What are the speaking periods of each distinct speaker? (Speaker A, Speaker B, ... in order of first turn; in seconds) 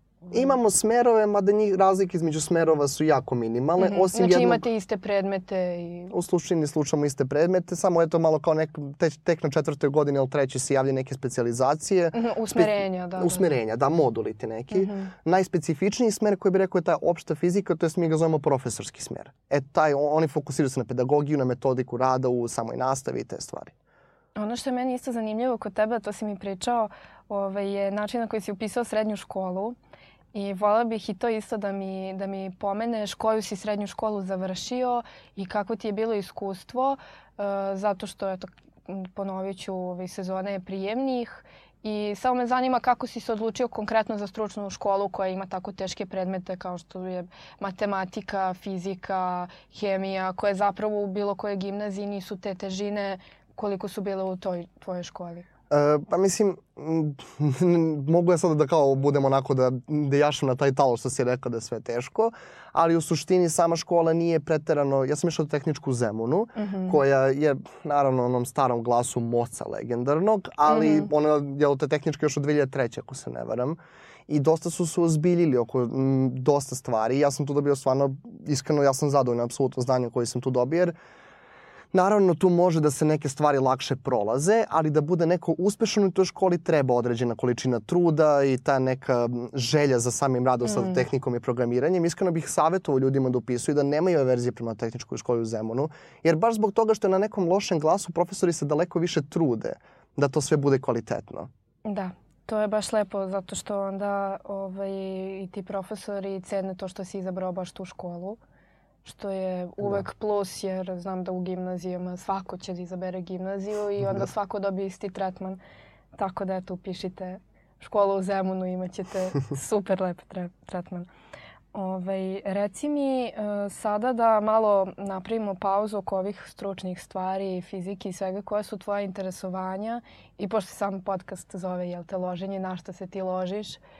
Speaker A: 0.3-4.6, 6.1-23.7, 55.7-80.9, 81.9-101.5
Speaker B: 3.8-6.1, 12.1-13.5, 14.7-15.1, 24.3-29.8, 30.3-55.4, 66.5-67.0, 70.7-71.1, 90.6-91.0, 101.8-108.4, 109.0-115.6, 116.2-121.1, 121.7-133.8